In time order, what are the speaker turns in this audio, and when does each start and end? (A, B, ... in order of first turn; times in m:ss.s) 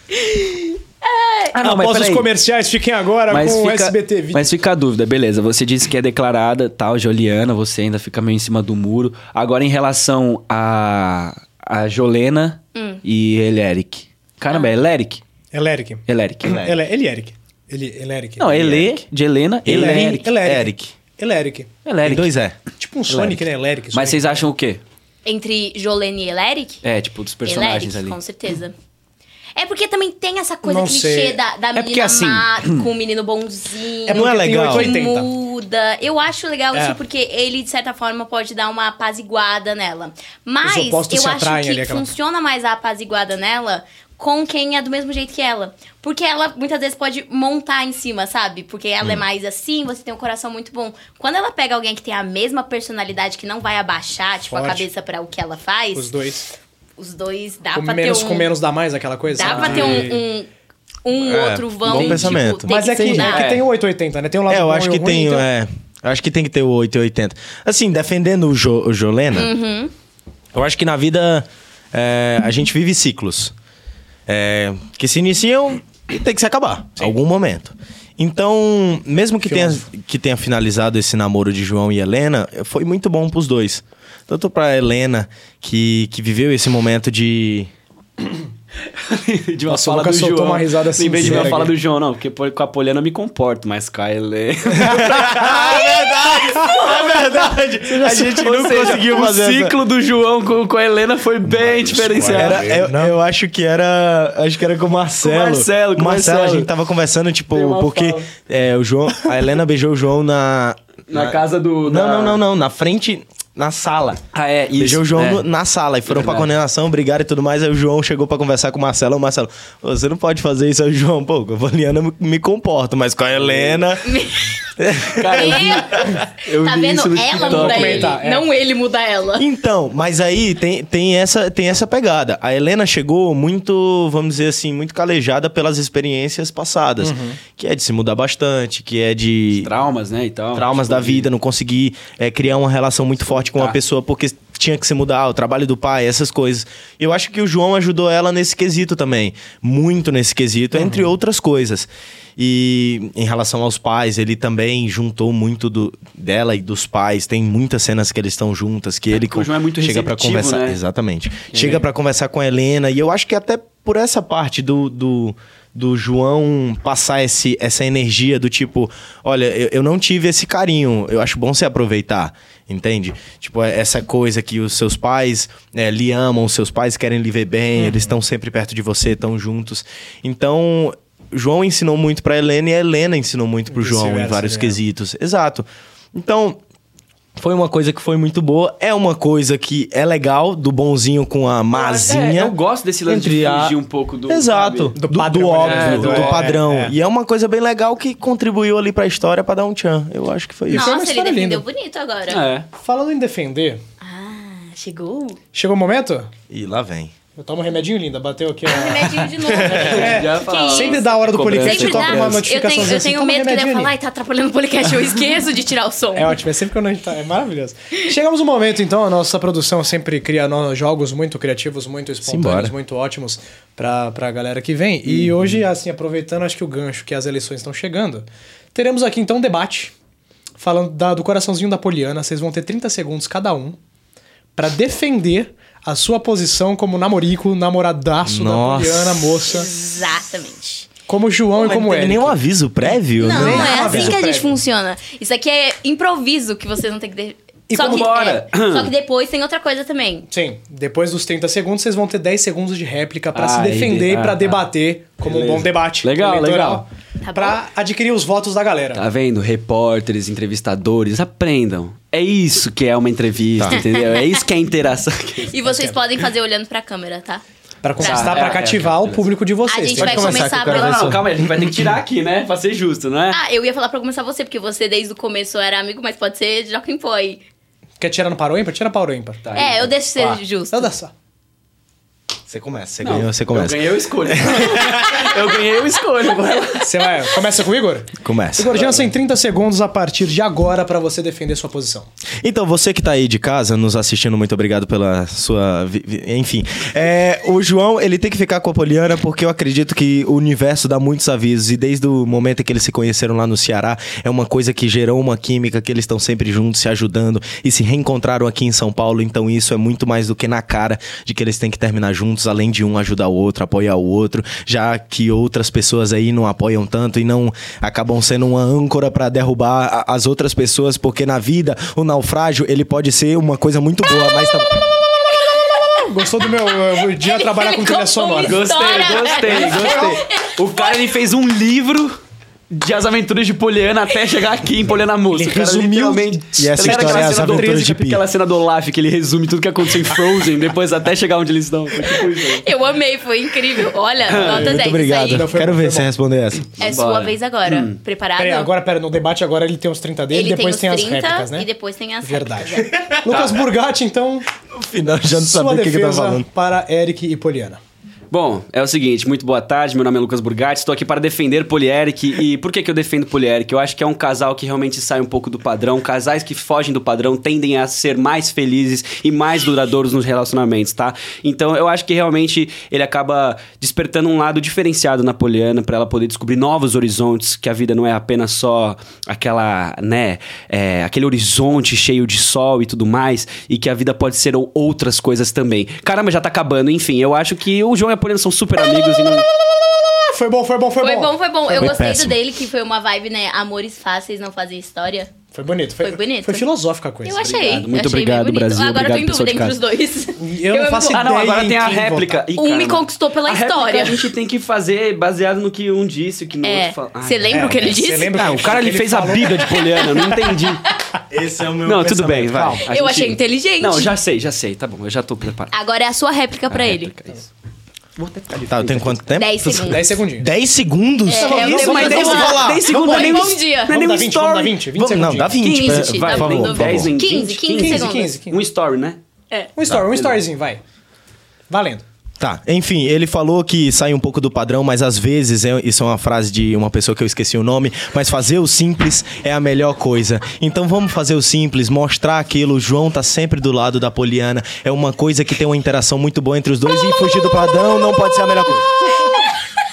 0:00.3-0:01.5 A
0:01.5-0:02.3 B
0:01.6-0:04.5 C
0:03.3-0:15.2 B
0:12.8-0:13.0 A
0:15.5-0:18.8 C
0:16.1-0:16.7 B
0:16.5-0:16.8 D
0:18.4-0:20.3 B
0:18.5-0:19.0 D
0:19.6-0:20.9 D
0:19.7-0:21.7 C
0:21.8-0:22.3 B
0:22.0-0:22.6 D
0:22.8-0:24.5 C
0:23.1-0:24.8 B
0:25.2-0:26.8 A
0:26.8-0:28.2 B
0:27.4-0:28.8 A
0:29.6-0:56.1 A
0:30.6-0:31.4 C
0:31.8-0:32.8 B
0:34.1-0:35.3 C
0:34.1-0:35.0 D
0:40.6-0:42.1 C
0:54.5-0:54.8 C
0:55.9-0:56.5 C
0:57.0-0:58.5 A
0:57.8-1:00.2 C
0:59.3-1:00.5 A
0:59.4-1:00.1 B
1:01.0-1:03.5 A
1:01.2-1:02.7 D
1:01.9-1:02.4 B
1:02.7-1:05.5 C
1:03.0-1:03.6 B
1:04.5-1:09.5 D
1:09.3-1:09.9 A
1:10.5-1:13.5 D
1:14.3-1:27.7 D
1:19.4-1:19.8 C
1:29.0-1:35.7 B
1:29.7-1:31.8 C
1:31.2-1:31.5 D
1:34.7-1:39.8 D
1:37.9-1:42.8 B
1:41.7-1:54.2 D
1:42.2-1:43.2 C
1:45.2-1:46.7 B
1:47.5-1:48.3 B
1:51.1-1:52.4 B
1:54.3-1:55.5 B
1:54.8-2:04.2 D
1:56.1-1:56.5 B
2:03.4-2:03.8 B
2:04.0-2:04.6 A
2:04.8-2:06.2 D
2:05.2-2:08.2 B
2:05.3-2:09.5 A
2:07.4-2:08.5 C
2:09.4-2:19.7 D
2:17.0-2:17.4 C
2:19.6-2:21.3 B
2:20.5-3:06.6 D
2:23.5-2:23.8 B
2:30.8-2:31.0 C
2:39.1-2:40.8 B
2:41.5-2:41.9 B
2:57.8-2:58.1 C
3:03.7-3:04.8 C
3:07.4-3:20.9 D
3:11.7-3:15.0 B
3:15.0-3:16.9 C
3:15.6-3:16.4 B
3:20.7-3:21.6 C
3:20.7-3:22.5 A
3:22.3-3:22.7 B
3:22.8-3:23.8 C
3:24.0-3:25.4 A
3:25.5-3:26.3 C
3:26.5-3:27.1 D
3:27.4-3:33.9 C
3:28.7-3:36.4 A
3:29.4-3:30.0 D
3:29.8-3:32.5 B
3:36.2-3:49.9 C
3:42.2-3:42.7 D
3:45.1-3:45.6 B
3:50.6-3:53.8 C
3:54.6-3:59.7 C
3:58.2-3:59.3 D
3:59.5-4:00.9 A
4:01.1-4:02.4 C
4:01.5-4:04.2 D
4:03.2-4:04.6 C
4:03.2-4:10.3 A
4:07.7-4:08.1 C
4:07.8-4:08.9 B
4:10.3-4:19.0 C
4:13.3-4:14.7 B
4:15.2-4:16.8 B
4:17.2-4:17.6 A
4:19.0-4:25.8 B
4:23.7-4:24.3 A
4:25.5-4:27.4 A
4:27.8-4:31.1 C
4:28.0-4:28.6 A
4:28.0-4:29.3 B
4:29.7-4:31.0 A
4:30.0-4:31.5 D
4:30.5-4:33.4 B
4:33.3-4:37.4 A
4:38.0-4:39.4 C
4:39.4-4:40.3 B
4:39.6-4:40.9 A
4:40.7-4:41.1 C
4:42.5-4:45.2 D
4:43.0-4:47.0 B
4:46.8-4:52.1 C
4:48.2-4:48.8 D
4:48.7-4:49.1 B
4:52.4-5:24.8 D
5:25.5-5:31.0 A
5:26.0-5:28.7 C
5:28.4-5:32.2 B
5:29.2-5:30.2 C
5:32.7-5:42.7 B
5:35.3-5:38.0 C
5:36.6-5:38.2 D
5:42.6-5:45.5 A
5:44.3-5:44.6 B
5:44.4-5:46.7 D
5:44.7-5:46.1 C
5:46.8-5:48.7 A
5:46.8-5:48.0 B
5:48.4-5:51.7 C
5:50.3-5:53.0 A
5:52.2-5:54.5 C
5:52.9-5:53.5 D
5:54.7-5:56.5 D
5:55.3-5:57.8 C
5:58.3-6:29.5 B
6:30.2-6:32.1 C
6:31.0-6:35.3 A
6:31.8-6:32.4 D
6:35.5-6:37.9 C
6:36.0-6:36.7 A
6:37.2-6:41.3 A
6:37.4-6:39.8 B
6:40.4-6:42.4 C
6:41.1-6:50.8 B
6:42.6-6:44.3 A
6:46.6-6:48.6 A
6:47.5-6:50.3 C
6:51.3-6:52.8 D
6:51.8-6:55.7 B
6:52.9-6:54.1 A
6:55.7-6:57.1 A
6:56.7-6:57.5 B
6:58.2-6:59.3 B
6:58.7-7:02.9 D
6:59.4-7:00.2 A
6:59.9-7:00.5 C
7:01.3-7:04.0 A
7:01.3-7:05.6 C
7:01.7-7:04.8 B
7:05.0-7:07.1 D
7:05.6-7:08.4 A
7:05.6-7:09.2 B
7:07.8-7:08.6 C
7:09.8-7:10.8 C
7:10.1-7:10.4 B
7:11.7-7:12.0 C
7:12.4-7:28.9 D